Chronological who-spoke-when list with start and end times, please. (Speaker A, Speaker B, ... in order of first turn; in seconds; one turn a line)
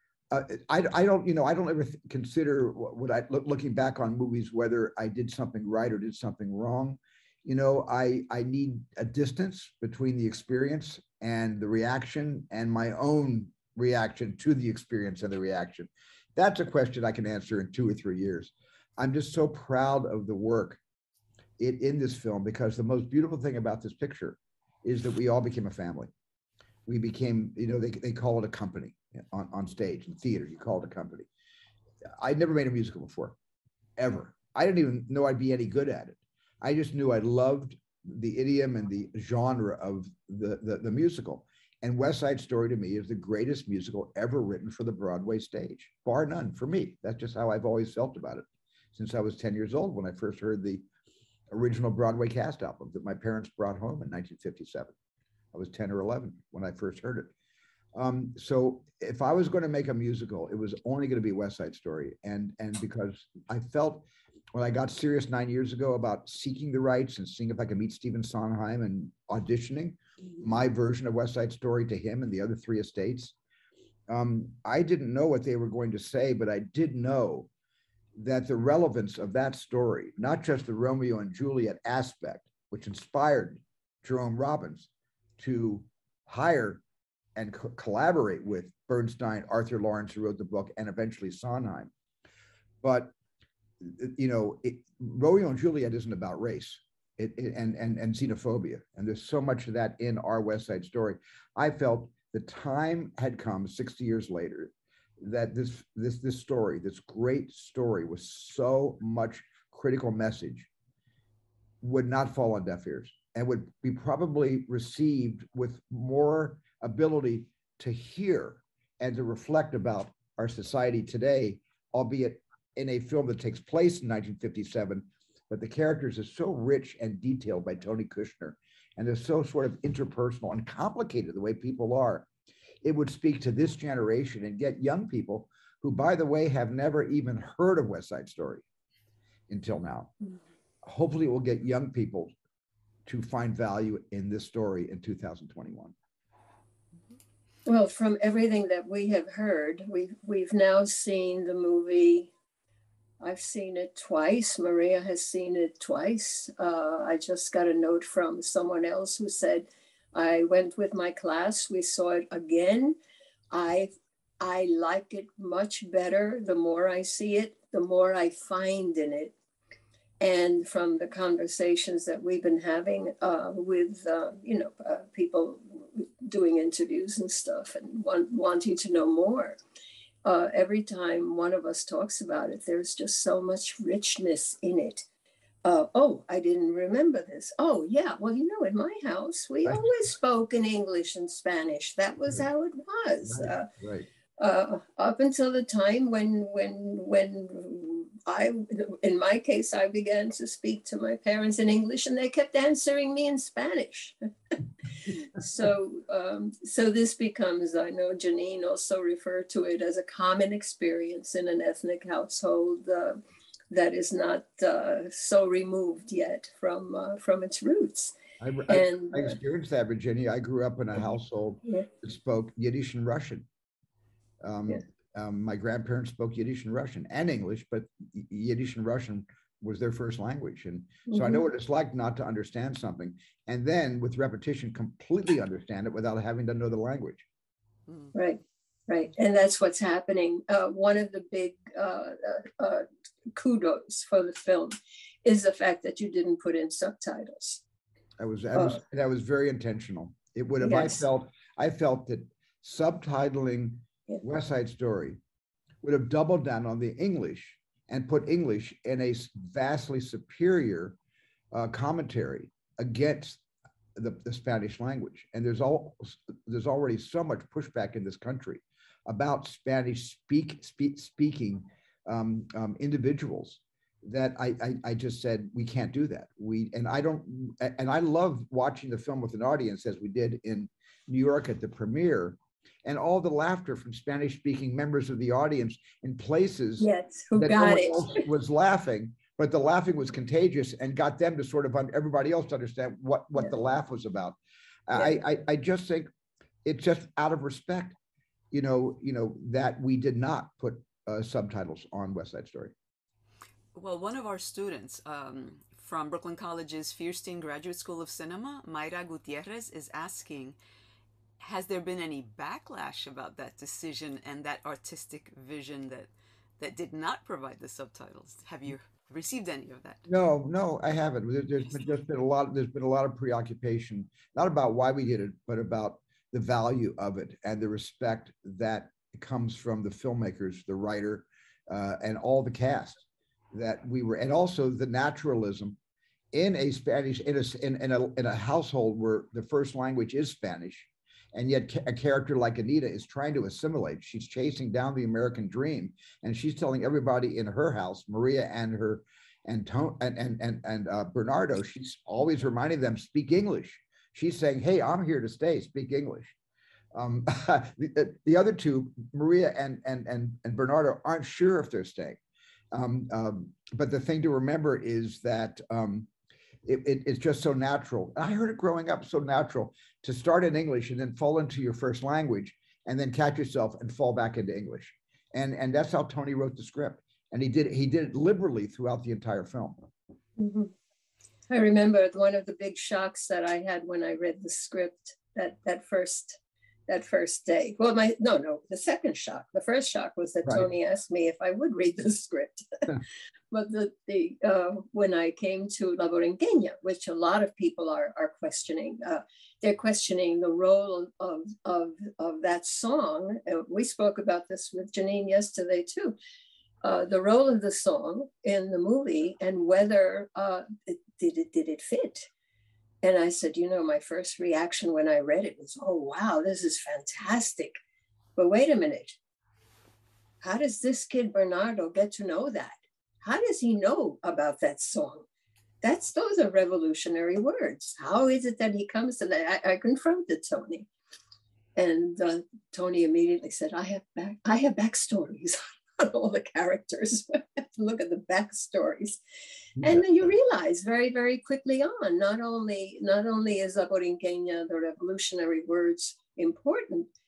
Speaker A: 0.3-20.8
Speaker A: 21.6-26.1
Speaker A: 26.9-31.3
Speaker A: 32.2-33.4
Speaker A: 34.0-50.8
Speaker A: 51.5-54.9
Speaker A: 55.5-57.3
Speaker A: 57.9-73.3
Speaker A: 74.1-77.5
Speaker A: 78.2-86.8
Speaker A: 87.4-91.9
Speaker A: 92.8-93.1
Speaker A: 93.8-110.7
Speaker A: 111.8-132.3
Speaker A: 132.8-138.6
Speaker A: 139.5-140.1
Speaker A: 140.8-142.3
Speaker A: 143.1-145.9
Speaker B: 147.7-152.3
Speaker B: 153.2-163.0
Speaker B: 163.5-169.3
Speaker B: 170.2-179.6
Speaker B: 180.2-185.1
Speaker B: 185.6-193.7
Speaker A: 193.2-194.1
Speaker B: 194.4-204.2
Speaker B: 205.0-218.2
Speaker A: 218.4-223.5
Speaker B: 218.7-219.3
Speaker A: 224.4-237.3
Speaker B: 231.1-231.4
Speaker B: 238.1-247.6
Speaker A: 248.2-255.2
Speaker B: 250.6-251.0
Speaker A: 255.8-261.0
Speaker A: 261.5-263.4
Speaker A: 263.9-296.1
Speaker B: 286.8-288.2
Speaker A: 296.6-298.0
Speaker A: 298.5-302.7
Speaker C: 303.7-310.6
Speaker C: 311.4-320.0
Speaker A: 320.1-335.8
Speaker A: 336.3-356.4
Speaker A: 356.9-362.2
Speaker A: 362.7-366.1
Speaker A: 366.6-379.9
Speaker B: 380.4-380.7
Speaker B: 381.5-406.2
Speaker B: 406.8-412.3
Speaker B: 413.0-417.8
Speaker B: 418.4-419.2
Speaker B: 420.4-425.3
Speaker B: 425.8-430.9
Speaker B: 431.8-439.2
Speaker B: 439.8-447.1
Speaker A: 439.8-440.1